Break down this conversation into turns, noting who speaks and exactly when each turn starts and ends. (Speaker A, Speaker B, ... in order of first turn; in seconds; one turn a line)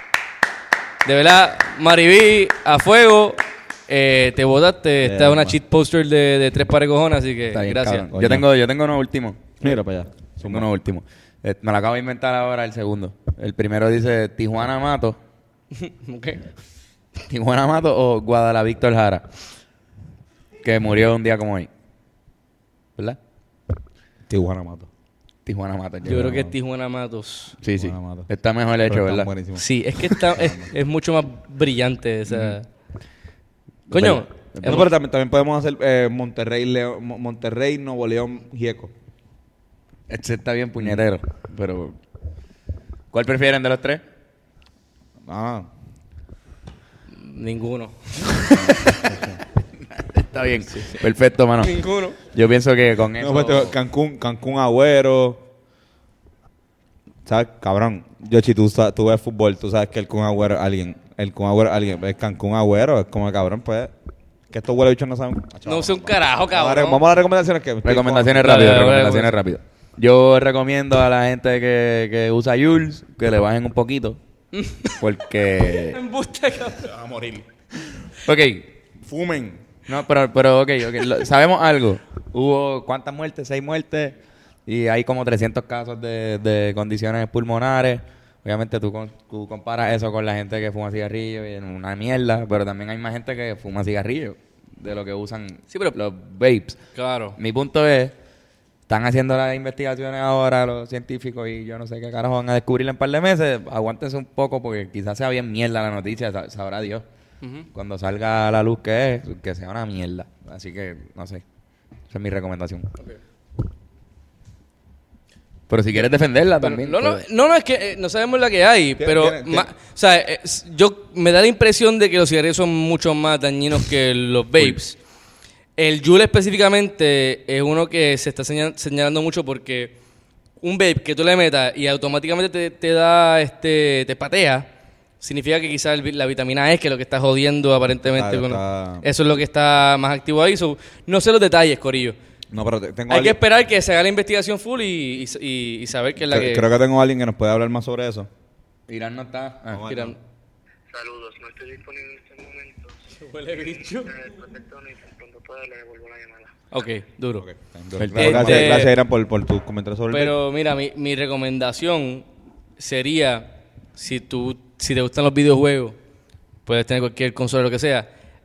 Speaker A: 1.0-8.1
Speaker B: 5.0-5.6
Speaker C: 7.5-9.4
Speaker B: 8.1-8.4
Speaker B: 9.6-10.7
Speaker C: 10.4-15.2
Speaker A: 15.7-16.4
Speaker C: 17.3-19.2
Speaker C: 20.6-21.7
Speaker B: 24.3-24.9
Speaker C: 25.4-26.4
Speaker A: 26.0-27.6
Speaker B: 26.2-26.5
Speaker C: 27.6-29.3
Speaker B: 27.8-30.7
Speaker A: 29.6-32.7
Speaker C: 33.9-34.9
Speaker A: 33.9-34.9
Speaker B: 34.6-38.9
Speaker C: 40.1-42.0
Speaker C: 43.1-44.0
Speaker B: 45.2-45.7
Speaker A: 47.2-49.1
Speaker B: 49.0-49.4
Speaker C: 49.9-53.7
Speaker A: 51.6-52.2
Speaker B: 53.2-55.4
Speaker B: 57.2-63.9
Speaker B: 64.5-68.8
Speaker A: 65.6-67.0
Speaker C: 67.8-74.2
Speaker A: 68.4-69.3
Speaker A: 74.5-75.0
Speaker C: 75.0-76.0
Speaker A: 75.7-76.9
Speaker B: 76.8-78.1
Speaker C: 78.2-78.7
Speaker B: 79.0-79.6
Speaker C: 79.9-96.8
Speaker A: 96.9-97.4
Speaker C: 97.3-98.1
Speaker C: 98.9-107.0
Speaker A: 107.4-107.7
Speaker C: 107.7-111.4
Speaker C: 112.1-112.9
Speaker C: 115.7-117.2
Speaker A: 116.6-125.0
Speaker B: 119.0-119.7
Speaker A: 125.8-129.9
Speaker A: 130.6-134.7
Speaker A: 135.2-142.2
Speaker B: 138.0-139.1
Speaker B: 142.5-143.4
Speaker A: 143.1-146.6
Speaker B: 146.2-148.3
Speaker C: 148.9-149.8
Speaker B: 149.7-150.2
Speaker A: 149.8-150.2
Speaker D: 150.9-152.9
Speaker A: 153.2-154.2
Speaker D: 153.6-156.5
Speaker A: 156.7-157.5
Speaker B: 157.4-160.3
Speaker C: 158.0-158.8
Speaker A: 158.1-158.9
Speaker A: 160.1-162.2
Speaker A: 162.8-166.0
Speaker A: 166.7-168.1